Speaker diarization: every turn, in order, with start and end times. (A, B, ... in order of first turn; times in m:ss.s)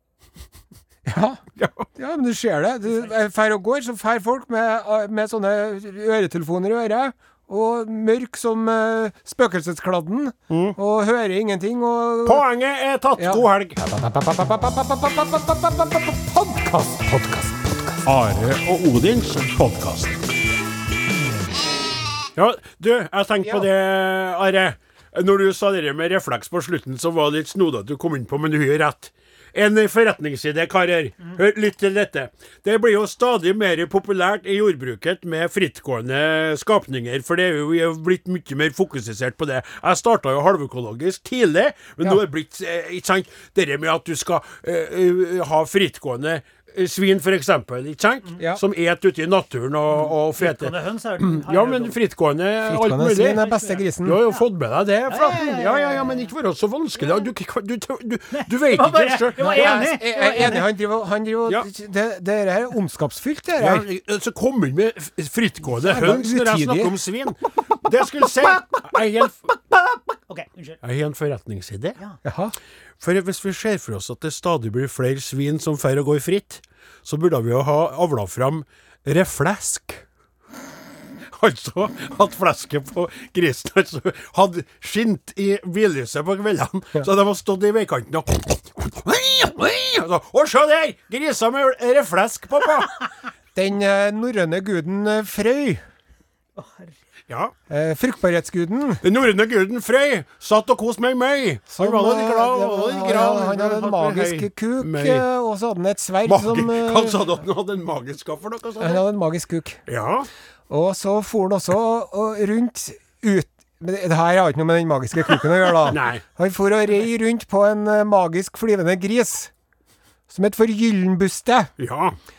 0:01.0-0:01.4 A
0:01.6-0:01.9 B
0:02.0-0:12.4 A
0:10.5-0:10.8 B
0:12.2-0:13.8 B
0:13.2-0:18.0 A
0:18.0-0:20.2 B
0:22.4-0:53.5 B
0:50.0-0:51.9 C
0:52.6-0:54.2 A
0:53.3-0:54.4 C
0:54.0-1:00.0 B
0:55.1-0:56.3 C
0:58.3-1:00.7 C
0:59.4-1:03.8 A
1:03.6-1:10.0 B
1:05.8-1:06.9 A
1:10.3-1:10.8 C
1:10.8-1:12.0 B
1:12.2-1:12.5 A
1:13.0-1:20.0 B
1:21.3-1:32.9 B
1:33.5-1:35.8 A
1:36.6-1:36.9 C
1:37.3-1:37.5 B
1:37.7-1:39.0 A
1:39.0-1:45.2 B
1:41.7-1:47.2 A
1:46.2-1:49.0 B
1:48.8-1:49.8 A
1:49.9-1:50.3 B
1:50.7-1:59.5 A
1:55.8-1:56.2 B
2:00.3-2:01.7 A
2:01.8-2:02.2 B